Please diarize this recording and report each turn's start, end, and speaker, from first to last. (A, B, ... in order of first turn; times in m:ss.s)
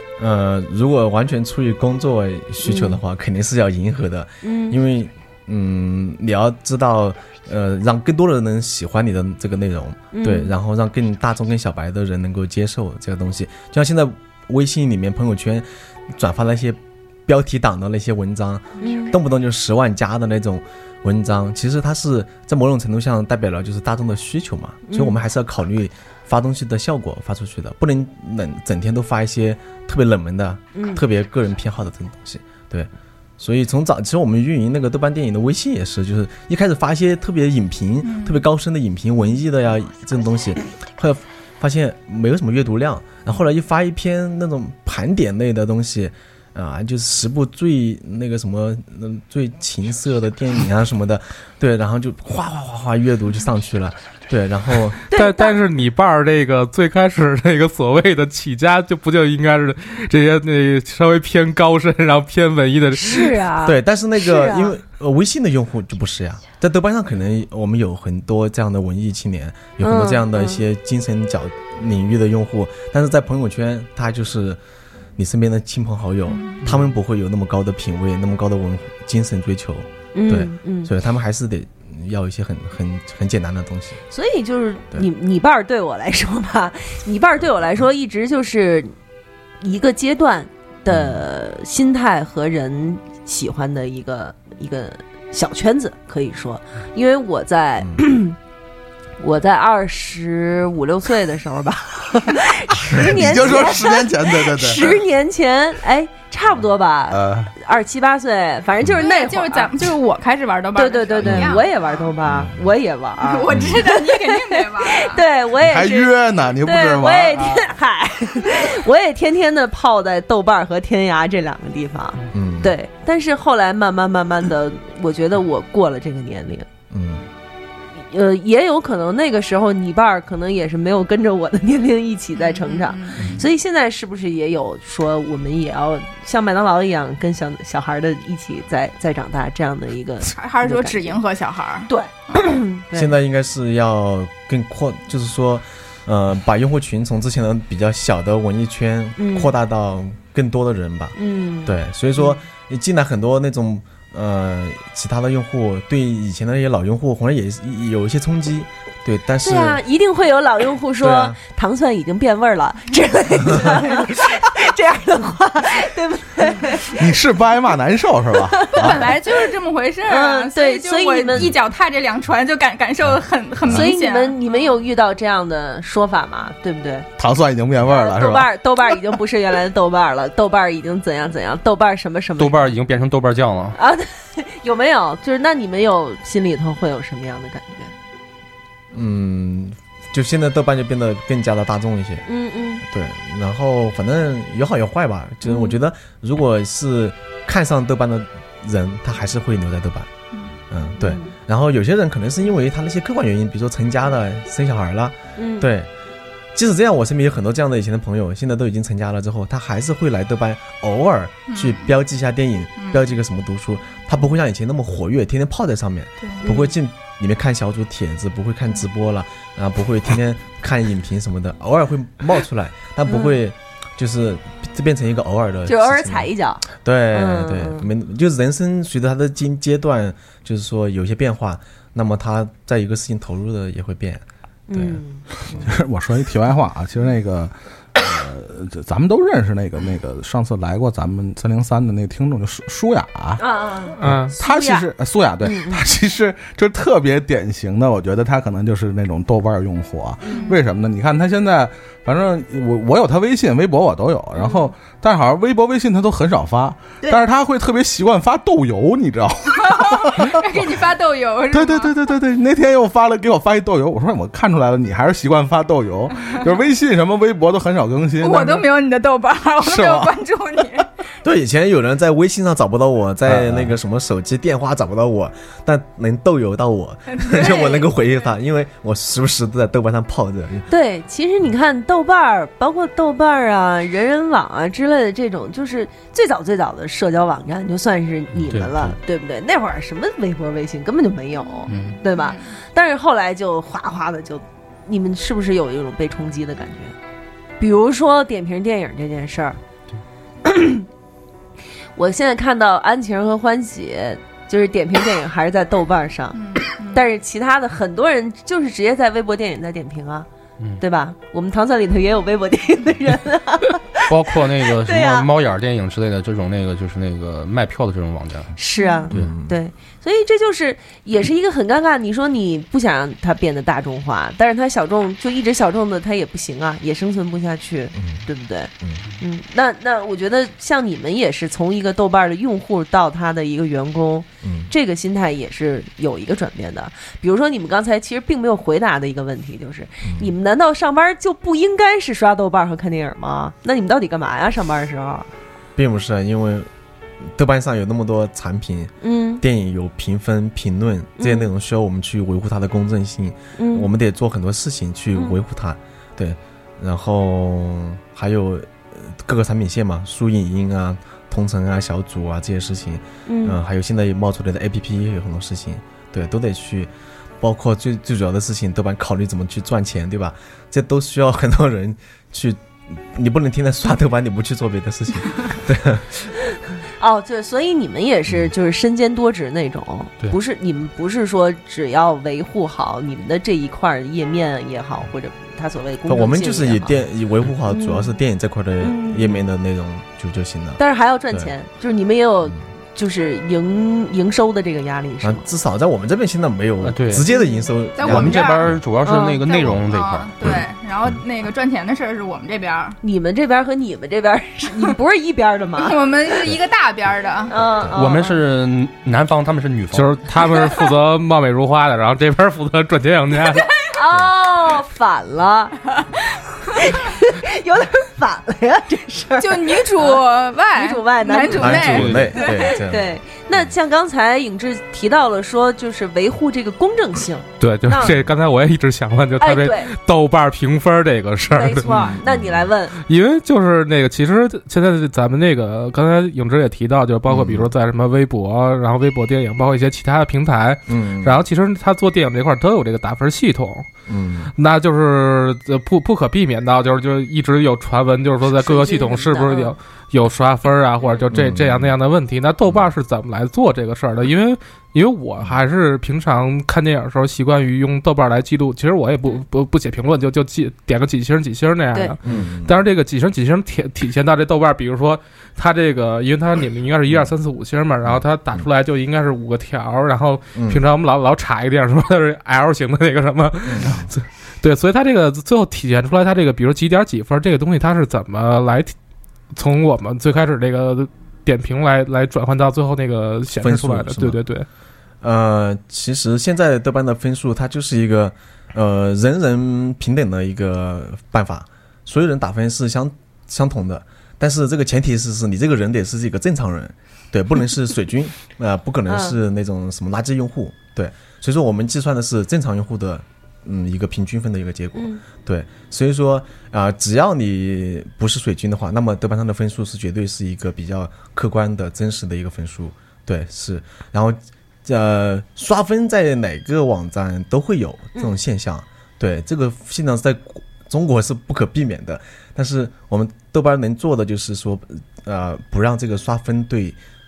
0:00.2-0:55.0 A
0:02.6-0:03.0 B
0:04.4-0:04.8 B
0:10.1-0:10.5 B
0:18.8-0:19.1 B
0:24.9-0:25.2 B
0:30.8-0:31.0 B
0:38.0-0:38.5 C
0:55.1-0:55.6 B
0:55.1-1:03.4 D
1:02.9-1:04.8 B
1:03.6-1:14.6 A
1:09.8-1:10.6 B
1:15.2-1:24.0 A
1:16.3-1:16.6 C
1:20.2-1:20.9 B
1:24.1-1:28.9 B
1:29.6-1:38.4 B
1:30.9-1:31.2 A
1:39.2-1:50.0 B
1:42.8-1:45.0 E
1:47.1-1:47.5 E
1:49.0-1:52.1 C
1:50.8-2:06.7 B
1:53.2-1:55.2 C
1:53.5-1:53.8 A
1:55.6-1:57.7 E
2:02.3-2:02.7 A
2:06.9-2:07.3 A
2:08.0-2:21.2 B
2:12.4-2:13.4 C
2:20.3-2:22.4 C
2:21.9-2:23.1 B
2:22.9-2:39.8 A
2:29.2-2:29.5 B
2:31.2-2:32.4 B
2:39.4-2:47.0 B
2:41.0-2:41.4 A
2:46.9-2:49.1 E
2:48.5-2:49.1 B
2:48.7-2:54.7 C
2:50.1-2:51.6 B
2:53.7-2:57.1 B
2:57.2-2:58.5 E
2:57.8-3:02.8 B
3:02.4-3:03.8 F
3:03.8-3:07.9 B
3:08.9-3:12.2 A
3:12.3-3:12.8 B
3:12.8-3:20.1 A
3:15.4-3:15.8 B
3:20.7-3:25.9 A
3:21.0-3:21.3 B
3:25.4-3:25.7 B
3:26.6-3:55.0 A
3:31.5-3:31.9 C
3:32.8-3:33.0 C
3:36.4-3:36.7 B
3:43.1-3:43.4 B
3:45.7-3:47.9 B
3:54.7-3:55.7 B
3:55.6-4:03.4 E
4:03.4-4:04.8 B
4:04.0-4:04.4 D
4:04.0-4:20.7 E
4:05.4-4:05.8 B
4:10.2-4:10.6 B
4:10.3-4:10.6 C
4:14.4-4:14.7 B
4:19.7-4:21.9 C
4:21.5-4:28.7 E
4:28.2-4:30.9 C
4:29.6-4:30.2 E
4:31.2-4:40.7 A
4:33.3-4:33.7 E
4:37.1-4:37.9 C
4:37.4-4:37.8 B
4:40.7-4:57.0 B
4:51.7-4:52.0 F
4:52.1-4:52.5 C
4:57.6-4:59.6 B
5:00.4-5:00.8 B
5:02.0-5:06.4 B
5:06.4-5:07.0 C
5:06.9-5:10.3 B
5:10.8-5:15.3 B
5:14.1-5:18.6 F
5:18.6-5:45.3 B
5:18.8-5:19.1 C
5:19.1-5:19.6 A
5:28.0-5:28.2 A
5:34.4-5:34.7 A
5:40.0-5:40.3 A
5:45.8-5:46.7 A
5:47.2-6:16.3 A
5:49.0-5:49.4 B
5:51.2-5:51.5 B
5:53.6-5:53.9 B
6:03.3-6:03.6 B
6:17.0-6:27.0 B
6:26.1-6:30.8 A
6:27.7-6:28.1 B
6:28.8-6:29.4 B
6:30.8-6:35.4 B
6:35.2-6:38.8 A
6:36.8-6:37.2 F
6:37.3-6:37.7 B
6:38.0-6:38.7 C
6:38.0-6:40.3 F
6:39.0-6:39.4 B
6:39.4-6:43.0 C
6:43.0-6:46.0 B
6:45.8-6:48.4 C
6:47.5-6:48.2 B
6:48.0-6:50.2 F
6:49.9-6:53.7 D
6:53.9-6:55.8 B
6:56.8-7:08.2 B
6:59.4-7:02.8 C
7:01.5-7:03.2 A
7:01.9-7:02.4 F
7:07.6-7:11.9 D
7:09.4-7:09.9 B
7:11.5-7:13.0 B
7:11.9-7:12.7 A
7:13.0-7:23.9 D
7:17.3-7:17.7 A
7:20.9-7:21.4 A
7:24.1-7:24.5 A
7:24.6-7:58.9 D
7:28.5-7:29.7 B
7:31.3-7:31.9 A
7:42.2-7:42.8 A
7:47.1-7:47.4 A
7:48.0-7:48.7 A
7:50.6-7:50.8 A
7:53.6-7:54.1 A
7:59.5-8:04.7 D
8:03.6-8:04.4 A
8:05.2-8:47.0 A
8:19.1-8:19.4 B
8:25.0-8:25.2 B